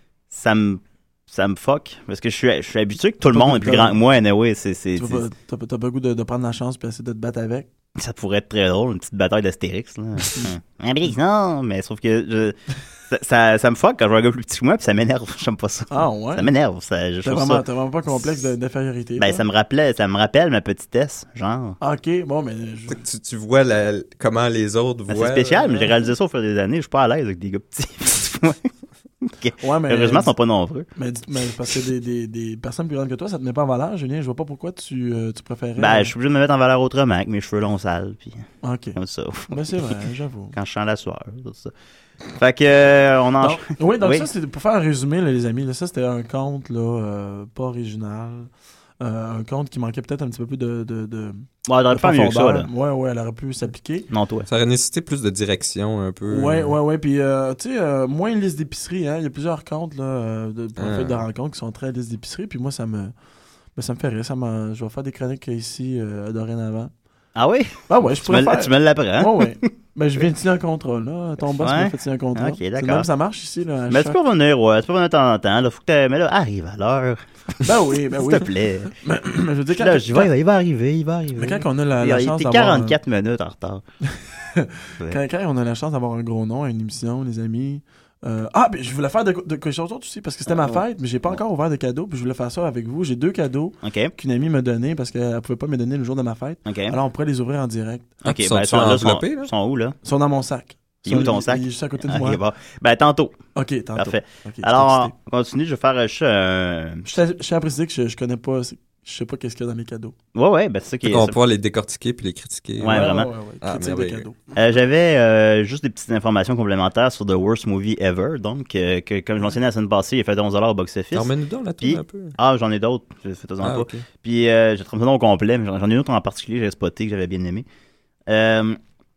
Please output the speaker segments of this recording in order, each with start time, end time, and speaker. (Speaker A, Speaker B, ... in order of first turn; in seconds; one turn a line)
Speaker A: 0.3-5.2
Speaker B: 3.2-4.0
Speaker B: 5.0-7.7
Speaker A: 8.0-12.6
Speaker A: 13.1-17.6
Speaker B: 15.9-16.5
Speaker B: 17.2-19.4
Speaker A: 19.2-21.8
Speaker B: 21.8-23.0
Speaker C: 22.9-25.9
Speaker A: 25.1-28.7
Speaker A: 29.2-30.9
Speaker B: 29.6-30.3
Speaker B: 30.9-36.1
Speaker A: 35.8-38.4
Speaker B: 38.6-39.0
Speaker A: 39.0-39.9
Speaker B: 39.5-40.5
Speaker A: 40.5-41.7
Speaker A: 42.4-44.3
Speaker B: 43.4-54.1
Speaker A: 51.6-52.7
Speaker A: 54.1-54.5
Speaker C: 54.5-56.8
Speaker B: 56.3-63.1
Speaker C: 60.8-61.2
Speaker B: 63.8-66.9
Speaker A: 67.3-69.5
Speaker B: 67.9-74.2
Speaker A: 71.6-73.1
Speaker A: 73.9-77.6
Speaker B: 77.6-80.3
Speaker A: 78.1-78.9
Speaker A: 79.7-83.8
Speaker B: 81.4-83.0
Speaker B: 84.5-98.1
Speaker A: 90.5-91.4
Speaker A: 93.8-94.1
Speaker A: 96.6-97.0
Speaker A: 98.2-100.0
Speaker C: 98.2-99.5
Speaker B: 100.0-102.4
Speaker A: 101.0-103.3
Speaker B: 103.5-105.1
Speaker A: 104.0-107.1
Speaker B: 107.1-110.1
Speaker A: 110.3-111.3
Speaker C: 111.0-114.3
Speaker A: 112.8-113.3
Speaker B: 112.8-114.4
Speaker A: 114.5-121.3
Speaker C: 121.1-122.3
Speaker A: 121.8-127.6
Speaker C: 123.6-124.0
Speaker A: 128.3-128.8